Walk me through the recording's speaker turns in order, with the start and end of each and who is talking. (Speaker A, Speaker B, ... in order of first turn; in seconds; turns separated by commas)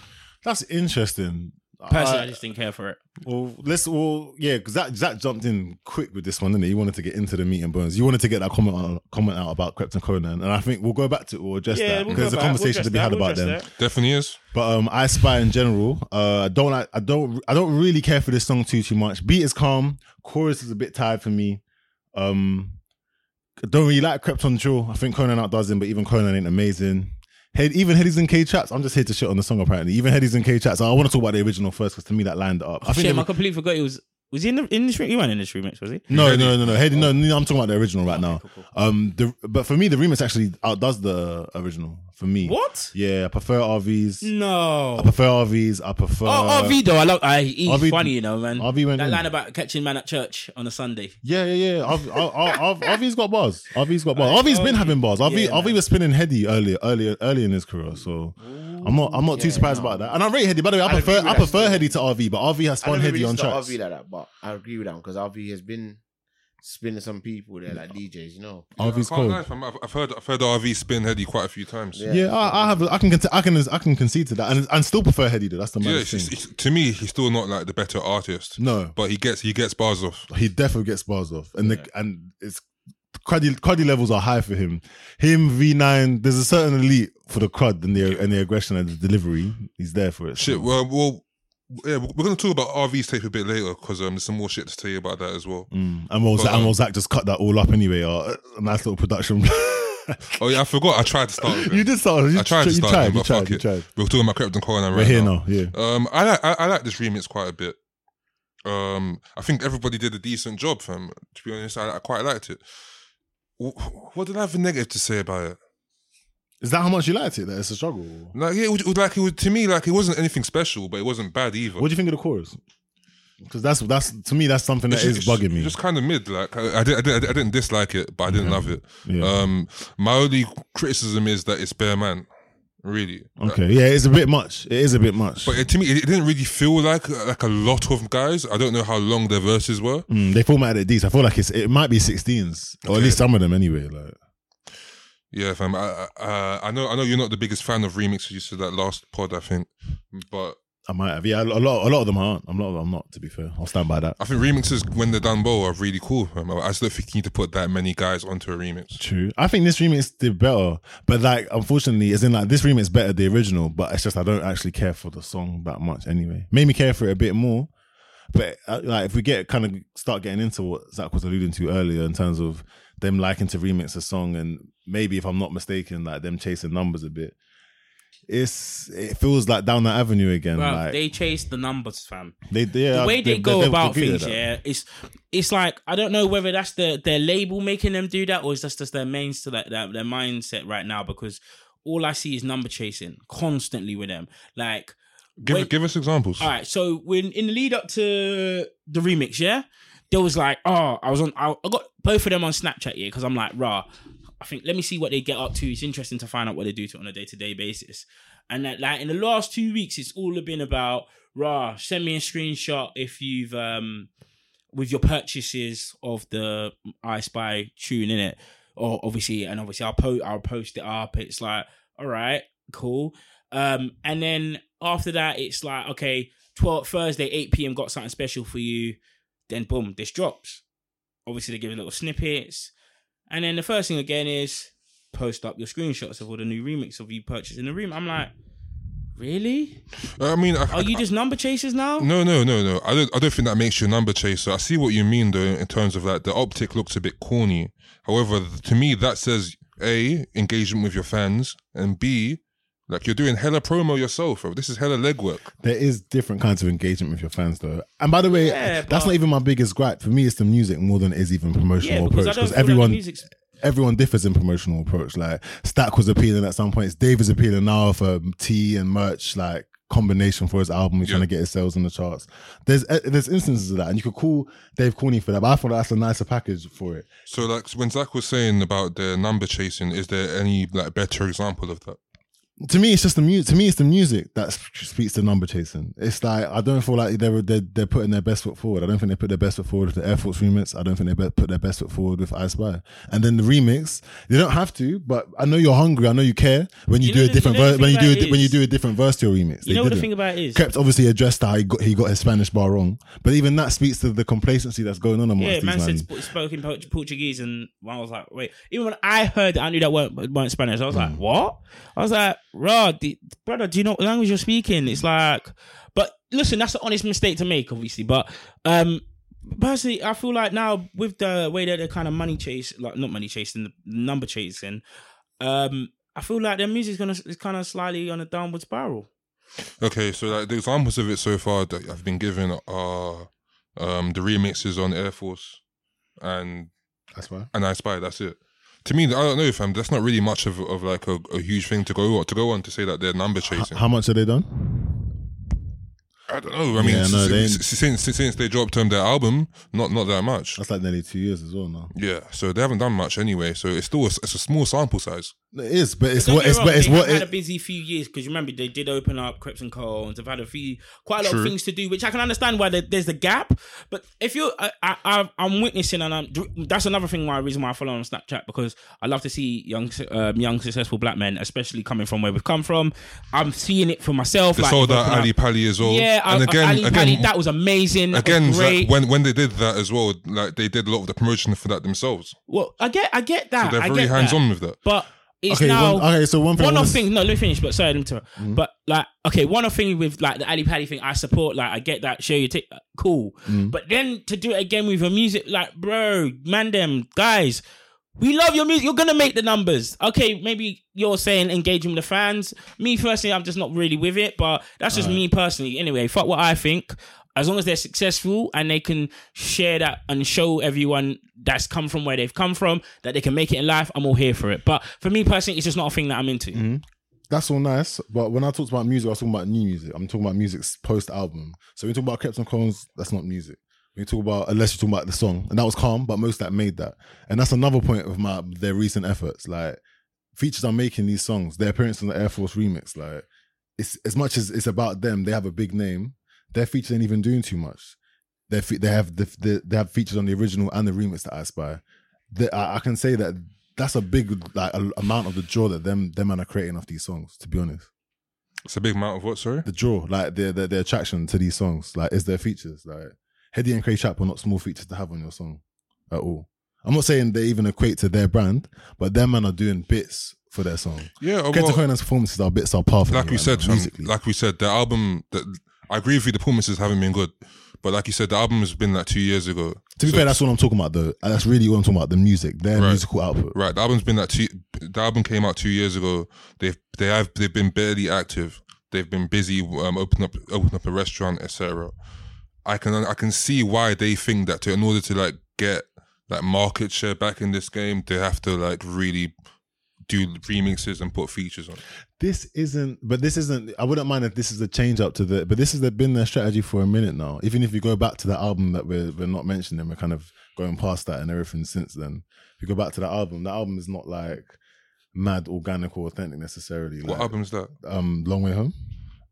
Speaker A: 0.4-2.4, Speaker B: 1.9-3.0, Speaker A: 3.2-13.6, Speaker B: 11.7-13.7, Speaker C: 12.1-12.3, Speaker C: 13.8-14.4, Speaker A: 14.5-21.6, Speaker A: 22.1-22.8, Speaker A: 23.6-33.3, Speaker B: 32.8-36.1, Speaker A: 36.1-44.3, Speaker C: 36.1-36.9, Speaker B: 38.0-38.7, Speaker B: 42.4-42.9, Speaker B: 44.2-45.2, Speaker A: 45.0-46.8, Speaker B: 46.2-51.2, Speaker A: 47.6-49.3, Speaker A: 51.2-63.8, Speaker B: 54.1-55.8, Speaker B: 58.4-59.6, Speaker D: 59.3-60.2, Speaker D: 60.8-61.9, Speaker D: 62.8-66.0, Speaker D: 66.6-68.7, Speaker A: 68.8-69.5, Speaker C: 68.8-72.0, Speaker D: 71.9-72.9, Speaker A: 72.1-76.3, Speaker C: 75.8-80.3, Speaker A: 78.6-79.0, Speaker A: 80.3-82.6, Speaker A: 83.1-90.7, Speaker C: 90.4-95.7, Speaker A: 95.7-100.3, Speaker C: 96.3-96.7, Speaker C: 100.3-107.8, Speaker A: 101.4-103.9, Speaker A: 104.9-105.7, Speaker C: 108.6-112.6, Speaker C: 113.6-115.6, Speaker A: 116.6-118.3, Speaker C: 118.3-121.9, Speaker A: 121.8-122.6, Speaker A: 123.4-125.8, Speaker C: 124.9-132.3, Speaker A: 128.3-129.3, Speaker C: 132.8-133.6, Speaker A: 133.4-135.6, Speaker C: 135.4-140.1, Speaker A: 140.1-144.2, Speaker C: 142.8-143.2, Speaker C: 145.3-150.6, Speaker A: 150.9-154.2, Speaker C: 154.2-159.0, Speaker A: 159.0-167.7, Speaker A: 168.3-177.3, Speaker A: 178.3-181.0, Speaker B: 180.6-182.3, Speaker A: 182.5-184.4, Speaker B: 182.9-194.9, Speaker C: 195.4-196.5, Speaker B: 195.4-195.7, Speaker B: 196.4-203.8, Speaker B: 204.4-214.1, Speaker B: 214.7-229.0, Speaker B: 229.5-230.6, Speaker B: 231.2-232.7, Speaker B: 233.3-238.3, Speaker B: 239.2-239.8, Speaker C: 240.1-241.0, Speaker B: 240.7-242.1, Speaker C: 242.0-255.5, Speaker A: 255.6-263.0, Speaker B: 258.3-259.2, Speaker B: 261.8-263.3, Speaker A: 263.6-277.1, Speaker C: 277.3-282.0, Speaker A: 282.6-306.1, Speaker B: 297.0-298.6, Speaker B: 299.6-300.6, Speaker B: 305.4-324.8, Speaker A: 310.9-311.2, Speaker B: 325.4-329.1, Speaker C: 329.8-335.6, Speaker C: 336.2-336.7, Speaker A: 337.1-337.5, Speaker C: 337.5-343.8, Speaker A: 343.5-345.1, Speaker C: 346.3-350.6, Speaker A: 346.8-347.6, Speaker A: 350.6-351.9, Speaker C: 351.9-355.3, Speaker A: 355.5-357.3, Speaker B: 356.2-378.9, Speaker C: 361.2-361.5, Speaker C: 374.6-377.3, Speaker C: 378.1-382.4, Speaker B: 382.5-397.6, Speaker C: 383.6-384.8, Speaker A: 385.5-387.1, Speaker A: 393.5-393.8, Speaker B: 398.2-416.6, Speaker A: 404.9-405.2, Speaker A: 416.5-429.8, Speaker A: 430.4-433.2, Speaker A: 433.8-437.9, Speaker A: 438.5-441.8, Speaker A: 442.3-447.9, Speaker C: 448.6-449.7, Speaker A: 449.6-464.1, Speaker C: 461.2-461.8, Speaker C: 463.1-470.4, Speaker A: 470.0-473.6, Speaker C: 472.8-481.9, Speaker C: 482.6-489.3, Speaker C: 490.1-491.8, Speaker A: 492.2-504.6, Speaker A: 505.1-508.7, Speaker C: 507.0-507.7